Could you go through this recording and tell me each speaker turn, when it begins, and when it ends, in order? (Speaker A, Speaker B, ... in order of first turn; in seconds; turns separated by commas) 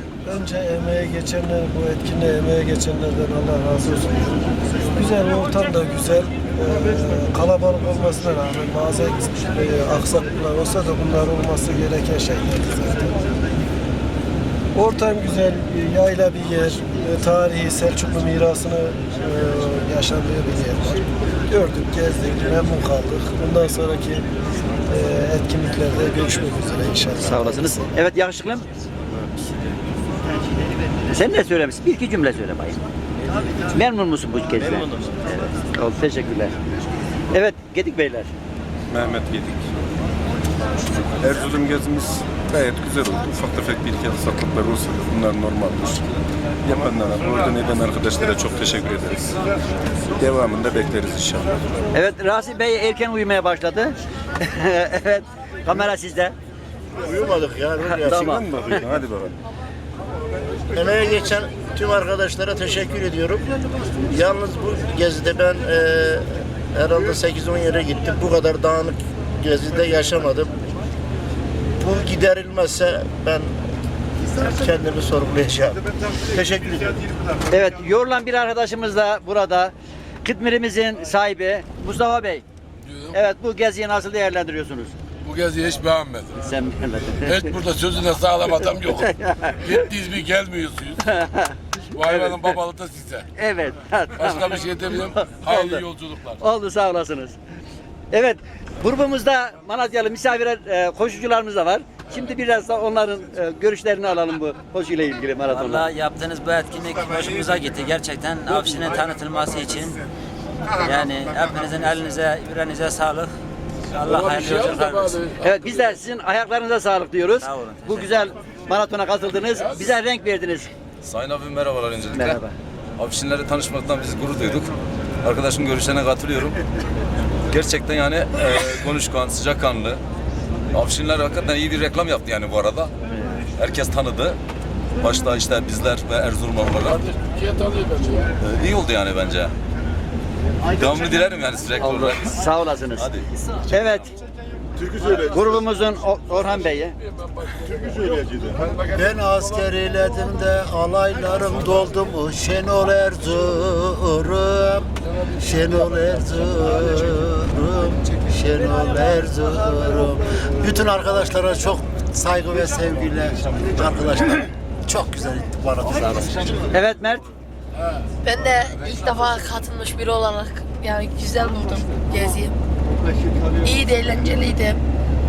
Speaker A: 0.3-4.4, Speaker A: 5.0-13.2, Speaker A: 14.8-24.2, Speaker A: 24.9-27.9, Speaker B: 27.2-28.7, Speaker B: 31.1-32.8, Speaker B: 33.7-36.5, Speaker B: 37.3-38.3, Speaker C: 38.9-39.6, Speaker C: 40.9-46.0, Speaker C: 46.6-49.4, Speaker C: 50.2-51.7, Speaker B: 51.9-56.3, Speaker D: 57.0-59.0, Speaker B: 57.9-58.8, Speaker C: 58.1-59.3, Speaker D: 60.7-70.6, Speaker D: 71.8-73.6, Speaker D: 74.4-77.0, Speaker B: 77.5-82.4, Speaker E: 82.8-83.1, Speaker B: 83.1-84.9, Speaker E: 85.2-86.3, Speaker B: 86.4-87.4, Speaker E: 87.3-89.1, Speaker B: 88.8-89.8, Speaker E: 89.7-91.0, Speaker B: 91.0-92.6, Speaker E: 92.0-93.2, Speaker B: 93.4-95.8, Speaker E: 94.2-96.4, Speaker B: 96.4-97.4, Speaker B: 98.1-105.9, Speaker F: 105.5-110.0, Speaker F: 110.8-113.3, Speaker E: 114.0-115.5, Speaker F: 114.2-115.0, Speaker B: 115.4-120.7, Speaker F: 117.4-118.3, Speaker G: 121.0-122.4, Speaker B: 122.2-122.5, Speaker G: 123.0-124.7, Speaker G: 125.2-126.6, Speaker G: 127.5-130.0, Speaker G: 130.7-132.9, Speaker G: 133.6-134.4, Speaker G: 135.0-137.1, Speaker E: 137.1-138.3, Speaker G: 138.4-139.5, Speaker G: 140.7-143.3, Speaker B: 141.8-143.1, Speaker B: 143.7-144.1, Speaker B: 145.2-146.9, Speaker E: 147.0-148.9, Speaker D: 148.9-166.7, Speaker B: 166.7-167.3, Speaker H: 168.2-172.6, Speaker H: 173.5-174.8